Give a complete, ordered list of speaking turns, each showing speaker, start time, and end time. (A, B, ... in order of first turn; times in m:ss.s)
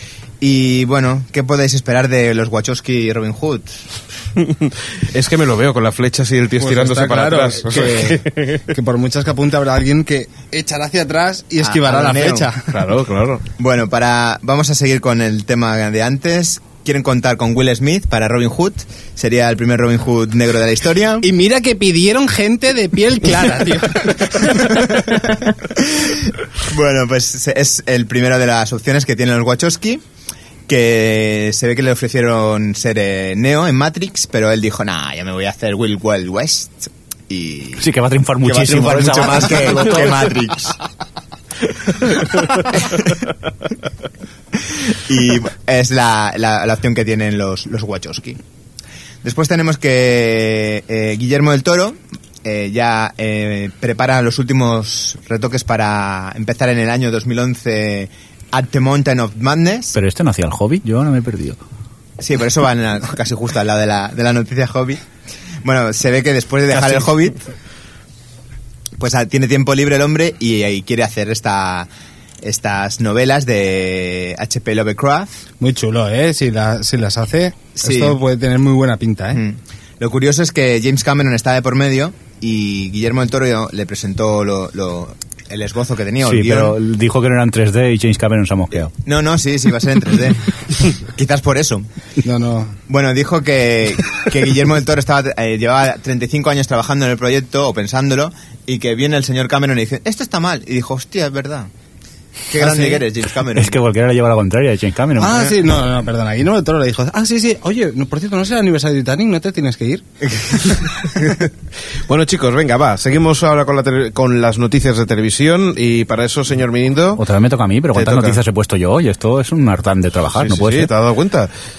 0:00.4-0:03.8 A
0:04.4-0:08.6 B
0:06.6-0:12.9 C
0:11.6-0:12.5 A
0:12.7-0:13.4 B
0:13.6-0:21.3 A
0:21.2-0:25.2 C
0:25.8-0:30.0 A
0:30.7-0:37.9 A
0:37.8-0:40.3 D
0:38.4-0:40.8 A
0:42.0-0:43.2 A
0:44.6-0:48.4 A
0:49.2-0:59.9 A
0:59.9-1:01.6 D
1:02.2-1:05.0 A
1:05.6-1:07.4 A
1:09.0-1:11.9 A
1:12.4-1:15.4 A
1:15.6-1:19.4 C
1:17.8-1:18.2 A
1:19.3-1:26.8 A
1:26.2-1:28.9 D
1:29.0-1:31.9 A
1:32.2-1:32.8 C
1:32.9-1:41.7 A
1:42.5-1:43.8 A
1:43.5-1:45.5 D
1:45.2-1:50.9 C
1:52.1-1:57.2 B
1:57.2-2:00.9 D
1:57.9-1:58.4 B
2:00.4-2:01.5 B